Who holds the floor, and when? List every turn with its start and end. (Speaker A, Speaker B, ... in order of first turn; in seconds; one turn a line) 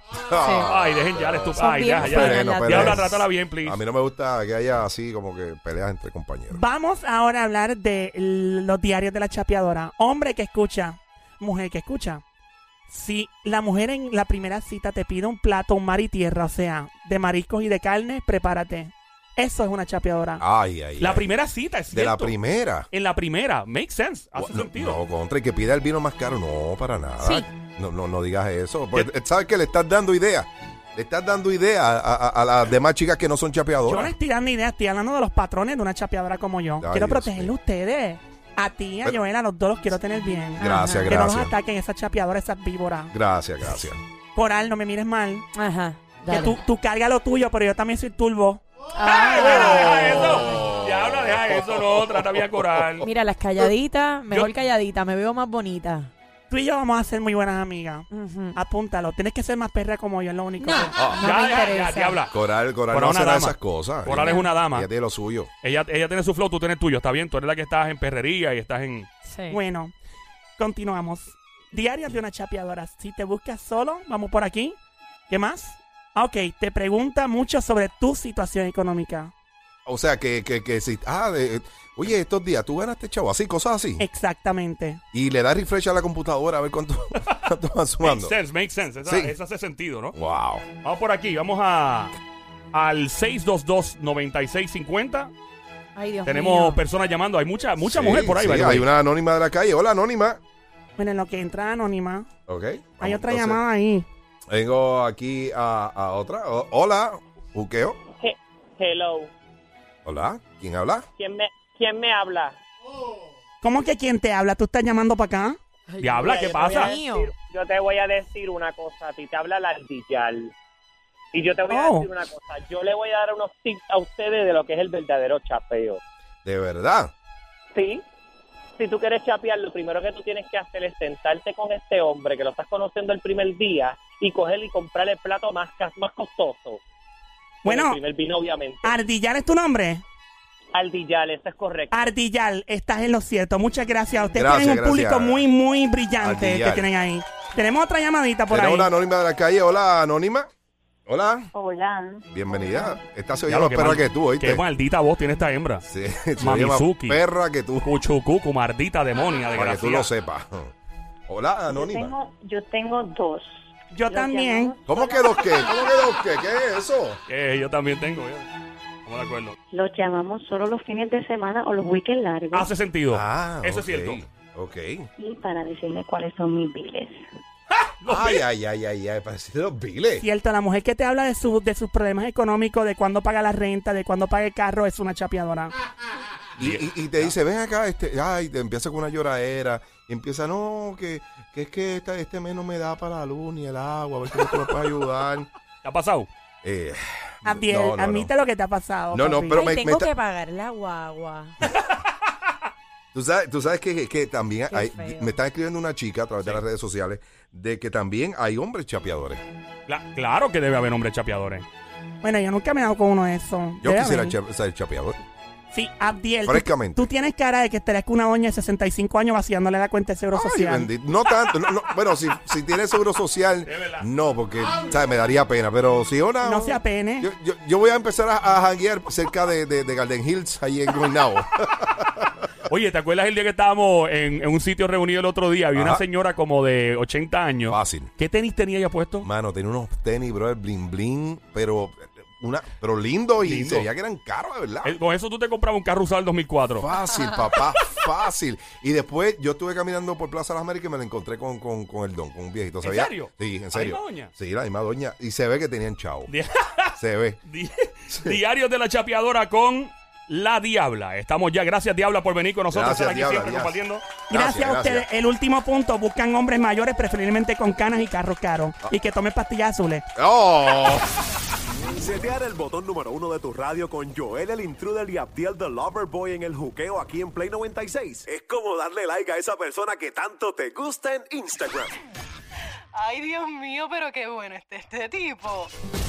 Speaker A: 0.2-6.6
Speaker B: 0.4-0.7
Speaker C: 0.6-3.8
Speaker B: 1.6-3.0
Speaker D: 6.5-12.2
Speaker D: 12.9-20.4
Speaker A: 20.4-21.2
Speaker C: 21.0-22.4
Speaker A: 21.9-22.9
Speaker C: 22.9-25.0
Speaker A: 24.4-34.1
Speaker D: 33.8-43.1
Speaker A: 36.8-37.5
Speaker B: 40.6-41.1
Speaker A: 40.6-41.5
Speaker A: 43.1-44.0
Speaker D: 44.3-45.5
Speaker B: 45.5-46.6
Speaker D: 46.3-48.6
Speaker B: 48.9-50.4
Speaker C: 49.0-53.1
Speaker D: 49.4-49.9
Speaker A: 50.4-53.0
Speaker B: 53.0-56.1
Speaker D: 56.5-61.4
Speaker B: 58.1-58.6
Speaker B: 60.6-62.2
Speaker A: 61.0-61.3
Speaker C: 61.2-62.3
Speaker A: 62.3-65.5
Speaker C: 62.9-64.9
Speaker B: 64.2-64.5
Speaker C: 65.6-69.1
Speaker B: 69.2-69.6
Speaker D: 69.5-69.9
Speaker D: 70.6-74.8
Speaker D: 75.3-79.3
Speaker A: 79.8-84.0
Speaker D: 84.0-85.0
Speaker A: 85.1-88.3
Speaker C: 88.0-90.1
Speaker A: 89.0-89.3
Speaker A: 90.1-90.7
Speaker C: 90.8-92.1
Speaker C: 92.7-95.3
Speaker B: 96.0-96.8
Speaker C: 96.2-98.9
Speaker A: 97.8-100.4
Speaker D: 101.0-102.3
Speaker A: 102.5-103.6
Speaker D: 103.0-104.0
Speaker A: 104.5-108.0
Speaker E: 108.1-109.3
Speaker A: 110.0-111.0
Speaker E: 111.2-112.6
Speaker D: 113.6-115.6
Speaker B: 115.9-117.3
Speaker C: 116.0-117.0
Speaker E: 116.2-120.5
Speaker E: 121.3-126.0
Speaker D: 121.7-122.1
Speaker A: 126.4-127.1
Speaker E: 127.7-128.0
Speaker E: 128.8-136.8
Speaker D: 137.6-138.0
Speaker E: 137.6-139.0
Speaker D: 138.8-140.0
Speaker E: 140.7-141.9
Speaker D: 141.9-148.9
Speaker A: 144.3-145.4
Speaker A: 146.2-146.9
Speaker A: 148.5-150.5
Speaker A: 151.1-151.5
Speaker F: 151.5-152.9
Speaker A: 152.3-154.6
Speaker C: 153.5-155.8
Speaker A: 155.8-157.9
Speaker C: 156.4-157.2
Speaker C: 157.8-160.1
Speaker A: 159.5-160.7
Speaker A: 161.3-162.2
Speaker F: 161.7-165.9
Speaker D: 163.9-164.7
Speaker A: 164.9-167.2
Speaker C: 167.3-168.5
Speaker C: 169.1-169.6
Speaker F: 169.7-172.7
Speaker C: 172.5-174.2
Speaker A: 173.1-175.1
Speaker F: 175.2-177.2
Speaker C: 177.8-178.4
Speaker A: 178.0-180.2
Speaker D: 180.2-185.7
Speaker C: 186.6-187.3
Speaker A: 186.6-195.5
Speaker C: 195.8-196.3
Speaker A: 196.6-198.3
Speaker D: 197.4-199.7
Speaker A: 199.1-200.1
Speaker B: 199.5-201.5
Speaker A: 203.1-209.4
Speaker B: 204.7-205.3
Speaker C: 209.9-211.7
Speaker D: 212.2-214.4
Speaker A: 213.8-215.2
Speaker D: 215.7-220.9
Speaker A: 216.4-217.1
Speaker A: 220.3-232.2
Speaker C: 223.7-224.1
Speaker D: 226.4-227.3
Speaker C: 232.7-239.3
Speaker A: 235.7-236.0
Speaker A: 237.7-238.1
Speaker A: 239.2-245.0
Speaker C: 243.4-243.9
Speaker C: 244.8-246.9
Speaker A: 246.8-256.3
Speaker C: 252.8-254.3
Speaker C: 256.3-264.1
Speaker A: 257.0-257.4
Speaker A: 258.1-258.4
Speaker A: 262.7-263.8
Speaker D: 264.3-270.1
Speaker A: 264.3-265.1
Speaker A: 270.1-271.1
Speaker G: 271.8-281.9
Speaker H: 282.9-285.7